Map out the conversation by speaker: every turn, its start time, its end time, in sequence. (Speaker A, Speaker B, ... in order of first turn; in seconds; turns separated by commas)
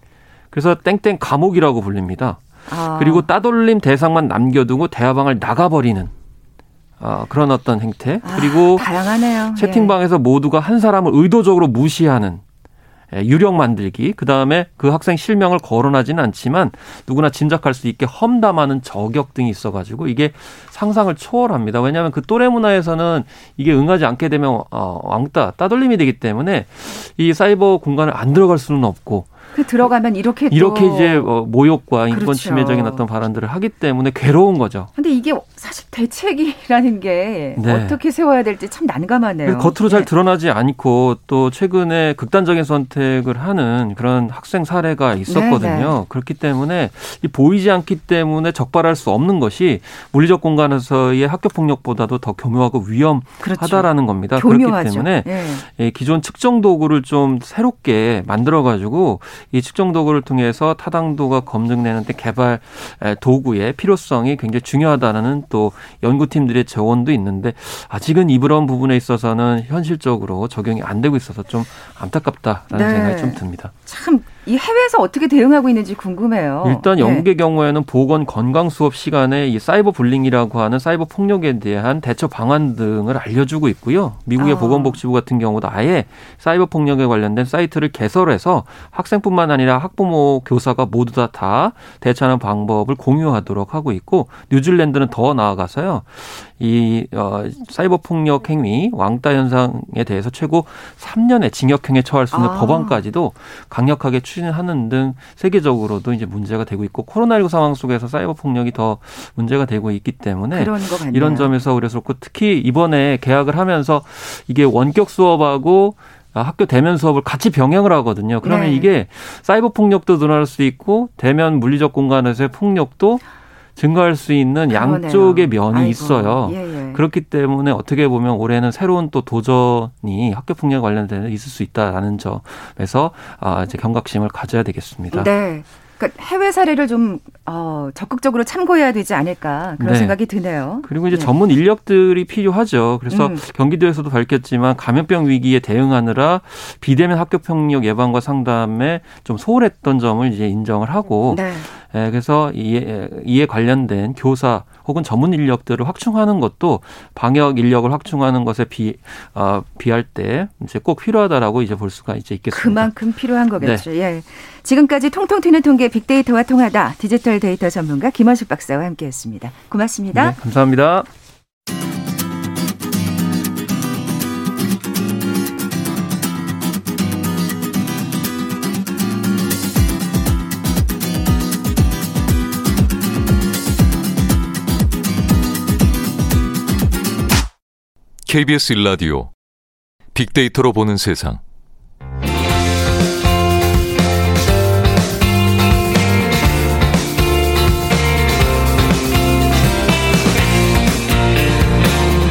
Speaker A: 0.5-6.1, Speaker B: 2.7-3.3, Speaker A: 7.0-12.4, Speaker B: 8.2-9.9, Speaker A: 13.1-29.3, Speaker B: 29.5-31.3, Speaker A: 30.5-34.9, Speaker B: 32.1-33.1, Speaker B: 35.0-40.1, Speaker A: 37.6-38.0, Speaker A: 39.4-73.7, Speaker B: 45.3-46.0, Speaker B: 53.4-55.6, Speaker B: 72.7-77.3, Speaker A: 76.6-123.2, Speaker B: 84.4-85.0, Speaker B: 102.3-103.0, Speaker B: 110.5-111.6, Speaker B: 118.4-118.9, Speaker A: 123.8-135.3, Speaker B: 124.7-127.0, Speaker B: 135.1-141.3, Speaker A: 139.8-163.0, Speaker B: 143.1-143.4, Speaker B: 151.3-151.7, Speaker B: 162.5-170.4, Speaker A: 163.6-163.8, Speaker A: 170.1-171.1, Speaker C: 188.3-189.2, Speaker C: 190.3-191.4